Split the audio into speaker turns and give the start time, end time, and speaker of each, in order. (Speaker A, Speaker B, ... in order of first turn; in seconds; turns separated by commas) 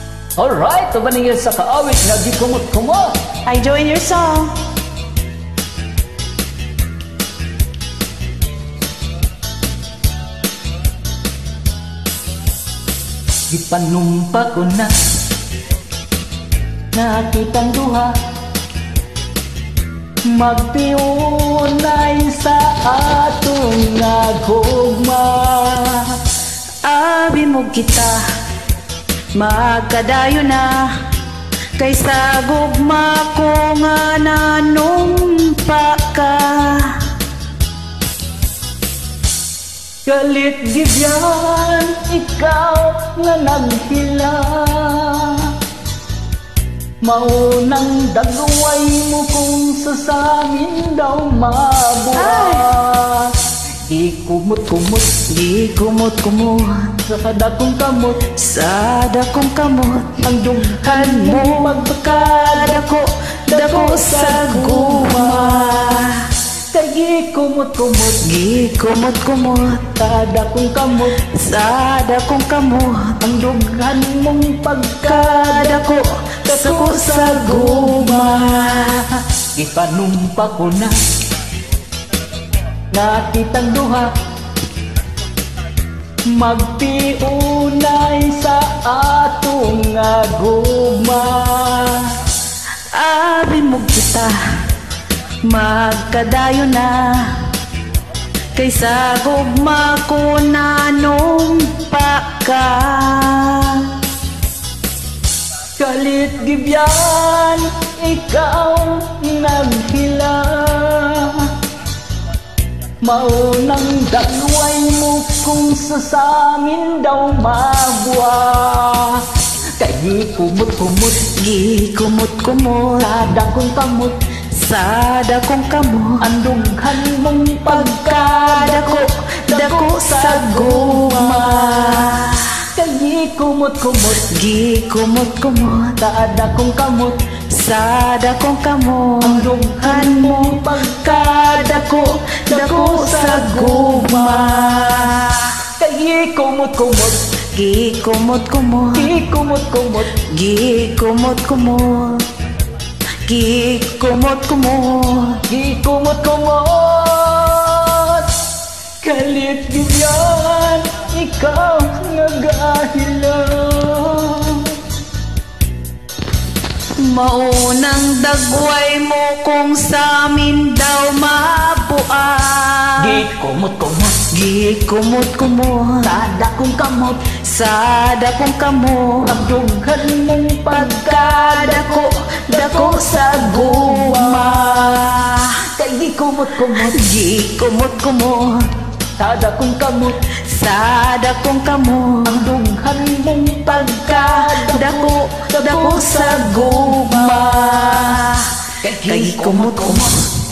Speaker A: 0.4-3.2, Speaker B: 3.5-4.5, Speaker A: 13.5-14.9, Speaker A: 16.9-18.1, Speaker A: 20.3-26.2, Speaker B: 26.8-28.2, Speaker B: 29.3-30.9, Speaker B: 31.8-37.0, Speaker A: 40.1-45.5, Speaker A: 47.0-53.3, Speaker B: 52.1-52.7, Speaker A: 53.9-55.2, Speaker B: 55.3-56.9, Speaker A: 57.1-58.3, Speaker B: 58.4-60.2, Speaker A: 60.2-62.9, Speaker B: 60.8-66.2, Speaker A: 63.5-66.0, Speaker A: 66.7-68.3, Speaker B: 68.2-69.9, Speaker A: 70.0-71.2, Speaker B: 71.2-73.2, Speaker A: 73.2-76.0, Speaker B: 75.0-79.0, Speaker A: 76.5-81.0, Speaker A: 82.9-84.1, Speaker A: 86.3-92.2, Speaker B: 92.9-94.4, Speaker B: 95.4-97.4, Speaker B: 98.5-103.9, Speaker A: 105.8-111.5, Speaker A: 113.0-119.2, Speaker A: 119.8-121.3, Speaker B: 121.2-123.1, Speaker A: 123.0-124.2, Speaker B: 124.5-126.2, Speaker A: 126.2-132.1, Speaker B: 127.7-132.5, Speaker A: 132.8-134.3, Speaker B: 134.2-136.0, Speaker A: 136.0-137.2, Speaker B: 137.5-145.5, Speaker A: 139.2-145.1, Speaker A: 145.8-147.2, Speaker B: 147.5-149.1, Speaker A: 148.9-150.2, Speaker B: 150.3-152.2, Speaker B: 153.3-155.4, Speaker A: 155.5-158.3, Speaker A: 159.0-164.8, Speaker B: 167.0-173.2, Speaker A: 173.0-174.2, Speaker B: 174.3-176.1, Speaker A: 176.0-177.3, Speaker B: 177.4-179.5, Speaker A: 179.3-184.9, Speaker B: 180.7-185.5, Speaker A: 185.7-187.0, Speaker B: 186.8-188.7, Speaker A: 189.2-190.2, Speaker B: 190.5-192.4, Speaker A: 192.3-198.2, Speaker B: 193.7-198.5, Speaker A: 198.8-200.1, Speaker B: 199.0-200.1